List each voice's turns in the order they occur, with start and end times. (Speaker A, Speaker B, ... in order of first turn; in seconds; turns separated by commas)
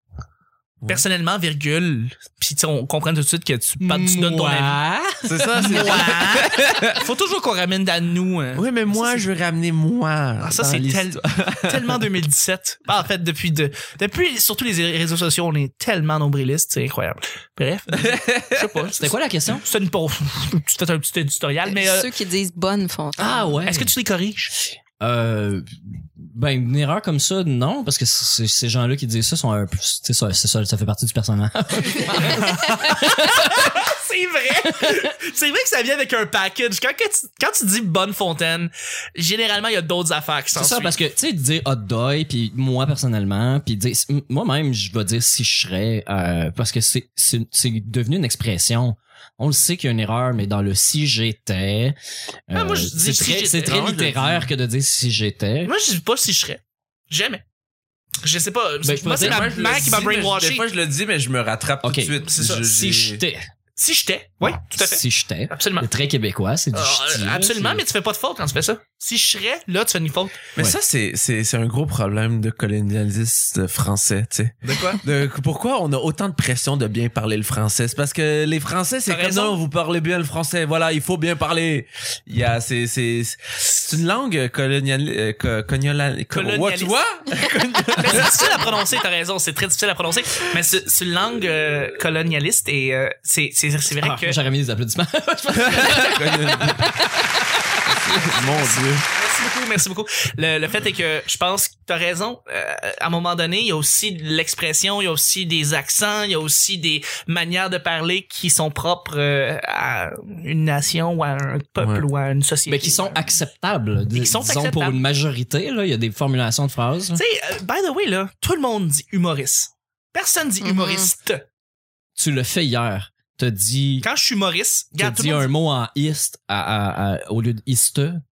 Speaker A: 0.9-4.8, Speaker B: 3.8-6.0, Speaker C: 5.2-7.0, Speaker A: 5.6-9.3, Speaker C: 8.5-12.0, Speaker A: 10.4-22.1, Speaker C: 17.9-18.9, Speaker B: 19.0-19.6, Speaker D: 21.6-23.6, Speaker B: 23.2-23.9, Speaker A: 23.7-24.5, Speaker B: 25.0-33.8, Speaker A: 31.9-41.0, Speaker B: 34.7-35.0, Speaker B: 40.5-52.0, Speaker B: 52.5-55.7, Speaker A: 52.5-53.8, Speaker C: 53.6-54.5, Speaker A: 55.6-57.4, Speaker A: 58.2-60.6, Speaker B: 58.8-59.4, Speaker C: 59.1-63.2, Speaker B: 61.8-63.5, Speaker A: 62.2-62.7, Speaker A: 63.8-65.9, Speaker B: 64.6-67.8, Speaker A: 66.7-70.4, Speaker C: 70.5-88.7, Speaker A: 74.7-75.0, Speaker A: 79.1-79.6, Speaker A: 86.3-87.0, Speaker A: 88.0-94.4, Speaker B: 94.0-98.4, Speaker C: 95.5-97.0, Speaker C: 98.1-99.0, Speaker A: 99.1-113.4, Speaker C: 111.8-112.0, Speaker B: 112.7-117.2, Speaker A: 114.1-115.0, Speaker A: 117.2-121.4, Speaker D: 120.6-121.1, Speaker B: 122.2-124.1, Speaker A: 124.0-125.5, Speaker B: 124.9-128.2